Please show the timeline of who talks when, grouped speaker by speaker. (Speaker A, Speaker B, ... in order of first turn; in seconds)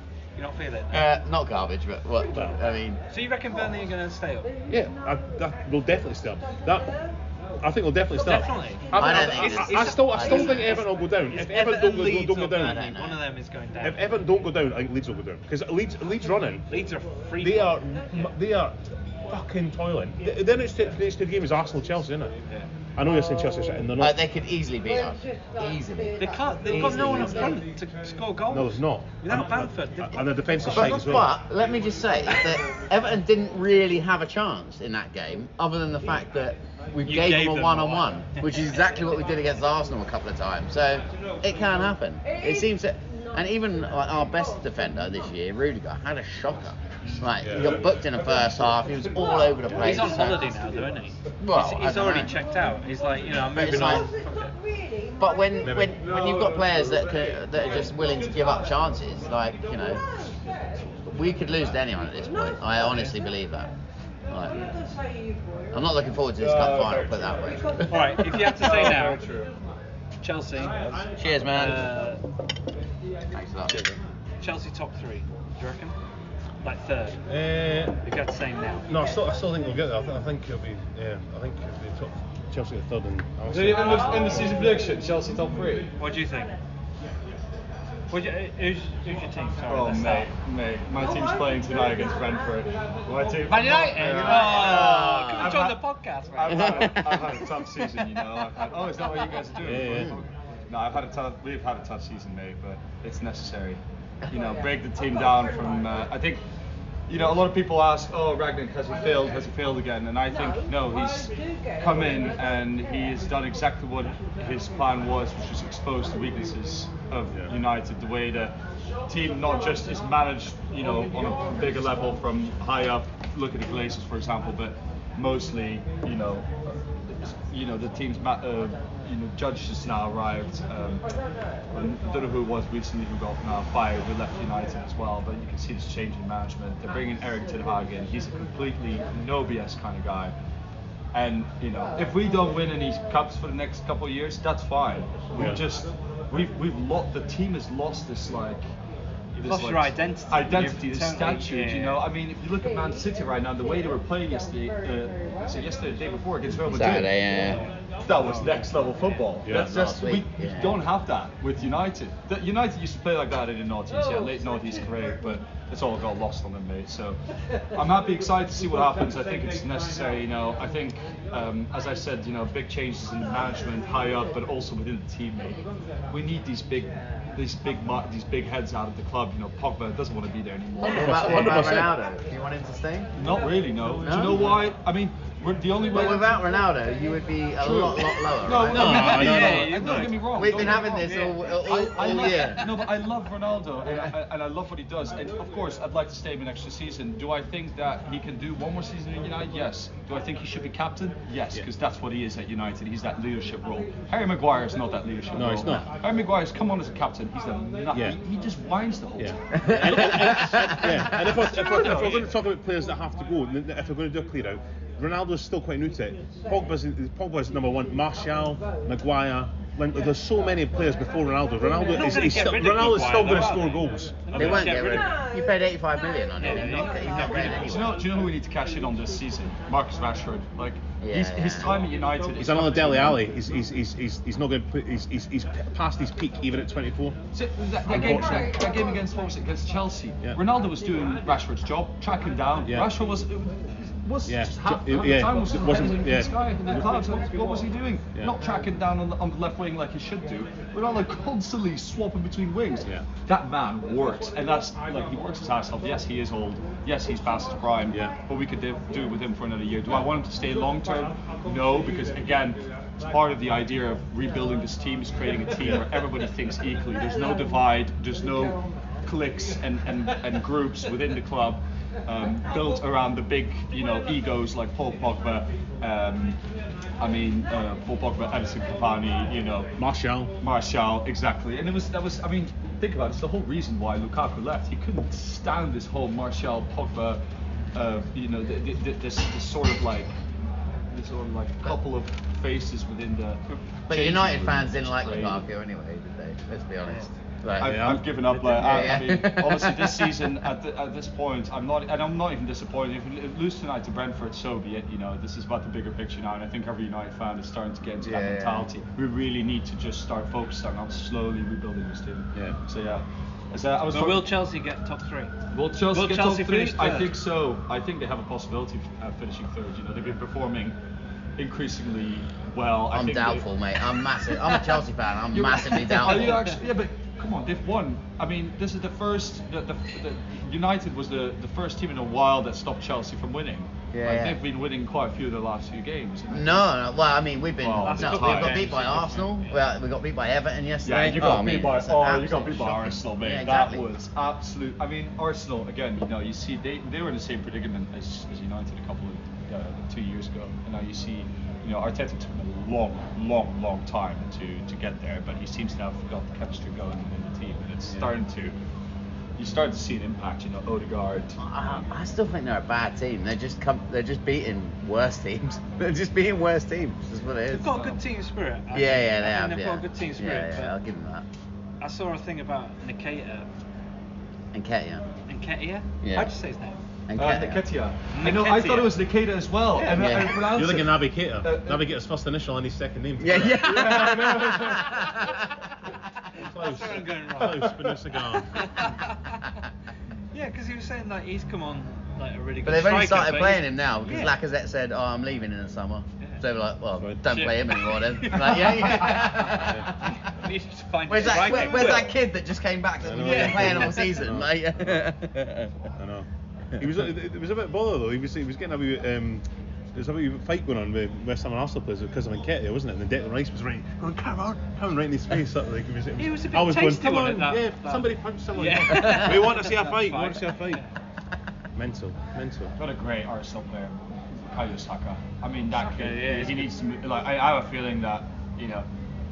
Speaker A: 0.4-1.1, 3.1-4.5, 8.2-14.2, 16.7-17.8, 26.2-31.1, 37.0-38.5, 47.0-47.3, 49.8-54.5, 67.9-69.3, 70.2-70.9, 71.5-72.2, 74.4-76.0, 76.6-77.2, 78.0-79.0, 86.0-86.5, 88.1-90.3, 93.5-97.0, 149.5-152.0, 188.8-190.1, 190.7-191.4, 211.4-212.2, 221.8-225.2, 226.4-227.6, 313.9-315.4, 315.9-317.1, 326.0-326.6, 337.8-339.6, 367.5-370.8, 371.8-373.5, 375.3-376.8, 378.1-378.9, 379.8-380.3, 383.8-384.1, 386.3-389.5, 390.3-394.4, 397.3-402.1, 403.2-404.1, 416.2-420.9, 425.7-426.7
Speaker B: 0.9-3.0, 8.9-10.8, 12.6-13.2, 24.0-27.6, 30.6-50.5, 51.4-52.3, 53.5-54.1, 55.2-60.0, 61.0-63.7, 64.3-64.6, 65.7-68.2, 71.2-71.9, 73.3-73.8, 93.8-95.5, 96.5-97.5, 156.7-157.6, 159.5-160.8, 180.9-183.1, 184.0-184.6, 185.9-192.7, 209.5-211.3, 224.3-228.0, 231.0-231.8, 293.9-300.3, 308.0-308.7, 322.9-326.4, 333.9-334.4, 336.3-343.9, 361.4-367.8, 368.7-371.3, 374.5-375.1, 376.0-376.3, 377.1-377.6, 379.9-380.5, 383.2-385.7, 392.6-400.2, 401.1-405.8
Speaker C: 2.3-2.6, 4.7-7.0, 7.6-12.9, 13.8-16.7, 17.4-22.4, 23.0-24.2, 28.5-31.4, 47.4-48.0, 55.6-56.0, 77.3-78.0, 78.9-84.7, 99.6-100.2, 145.4-145.6, 159.4-159.7, 180.9-182.0, 188.7-190.2, 205.3-205.9, 207.9-208.2, 209.2-225.0, 232.4-237.2, 237.8-238.4, 242.7-242.9, 244.3-247.0, 265.6-265.9, 279.8-280.3, 297.6-299.1, 380.4-385.1, 386.4-388.9, 397.0-397.3, 399.6-399.9, 403.0-405.1, 406.0-420.8, 421.8-422.7
Speaker D: 66.4-67.6, 68.3-69.5, 83.5-85.9, 89.7-95.8, 96.3-106.4, 107.1-118.6, 119.1-126.5, 127.1-131.1, 131.7-140.3, 141.1-148.6, 149.3-167.2, 167.7-181.6, 183.2-186.5, 187.6-210.9, 211.8-212.2, 227.6-233.3, 237.3-276.4, 277.0-279.7, 280.4-287.2, 287.7-290.1, 290.9-295.4, 297.6-314.3, 315.5-320.8, 321.4-323.5, 324.3-336.7, 337.6-338.8, 340.8-358.6, 359.4-361.4, 377.1-381.9, 422.8-428.9